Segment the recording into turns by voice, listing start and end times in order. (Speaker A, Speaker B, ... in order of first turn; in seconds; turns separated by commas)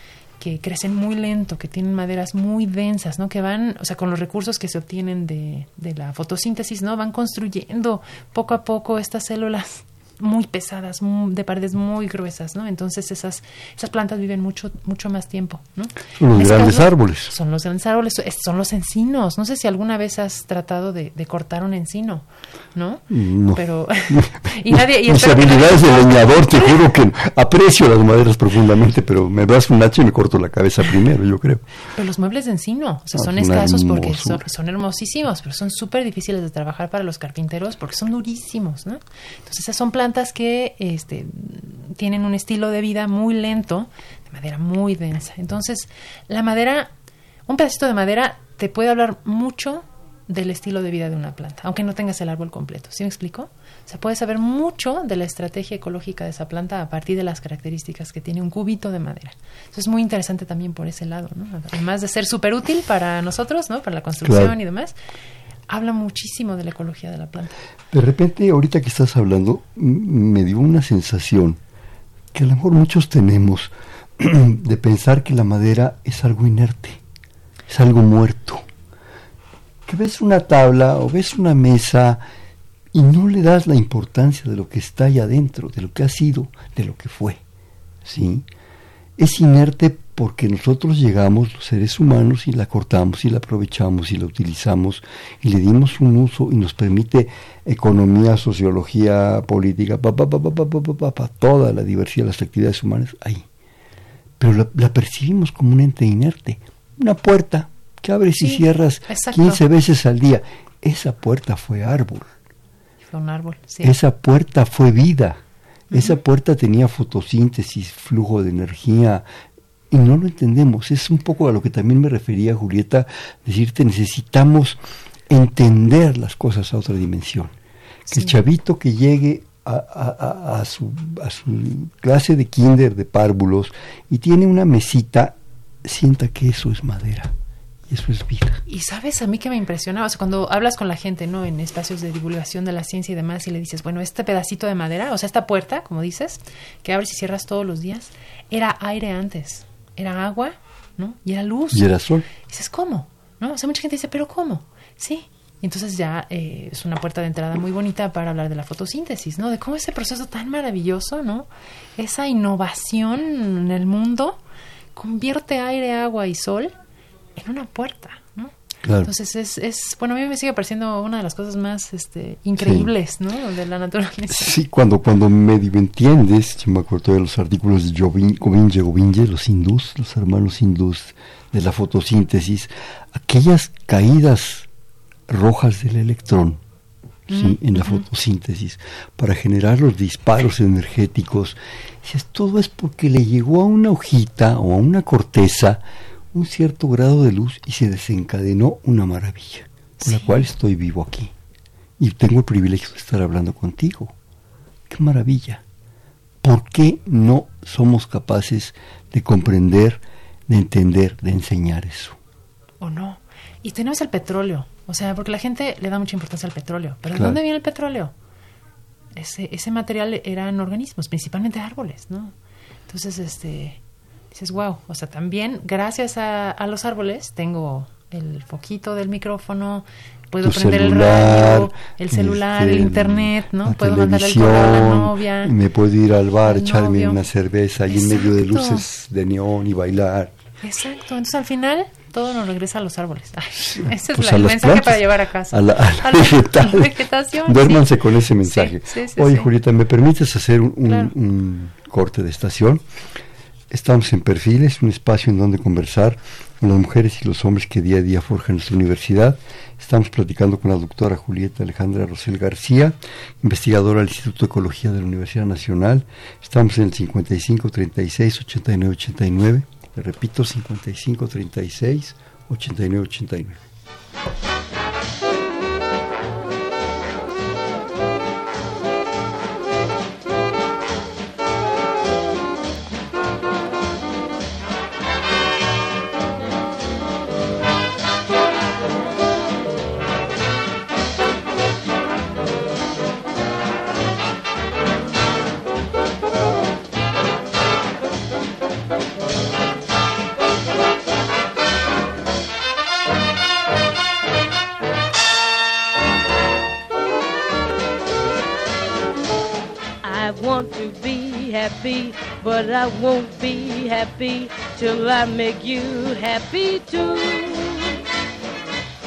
Speaker A: 0.4-26.9, Speaker B: 16.2-17.3, Speaker B: 23.1-31.6, Speaker A: 31.9-46.9, Speaker B: 33.1-34.4, Speaker A: 47.5-65.0, Speaker B: 64.2-64.6, Speaker A: 65.7-67.6, Speaker B: 67.9-71.6, Speaker B: 72.3-77.0, Speaker B: 77.7-78.7, Speaker B: 79.9-82.2, Speaker B: 82.9-87.4, Speaker B: 88.0-88.5, Speaker B: 89.2-103.5, Speaker B: 104.4-112.3, Speaker A: 108.4-109.6, Speaker A: 113.1-114.0, Speaker B: 113.8-115.4, Speaker A: 115.9-116.2, Speaker B: 115.9-119.2, Speaker B: 119.9-127.5, Speaker B: 128.1-137.3, Speaker A: 128.1-128.4, Speaker B: 137.9-138.6, Speaker A: 138.7-151.9, Speaker B: 151.7-152.3, Speaker A: 152.4-164.4, Speaker A: 165.0-166.7, Speaker A: 167.4-174.6, Speaker B: 168.8-169.1, Speaker B: 172.6-172.9, Speaker B: 174.3-184.7, Speaker B: 185.3-186.6, Speaker A: 187.3-188.1, Speaker B: 187.3-201.3, Speaker A: 200.0-200.5, Speaker B: 202.0-204.1, Speaker B: 204.9-205.6, Speaker B: 206.4-212.2, Speaker A: 212.8-218.1, Speaker B: 217.1-217.4, Speaker A: 219.2-222.3, Speaker A: 222.9-223.8, Speaker A: 224.3-235.5, Speaker B: 230.4-240.3, Speaker A: 236.5-237.2, Speaker A: 237.9-238.9, Speaker A: 240.6-247.9, Speaker B: 243.6-252.8, Speaker A: 248.4-249.5, Speaker A: 250.8-251.1, Speaker B: 253.7-273.7, Speaker C: 310.0-318.0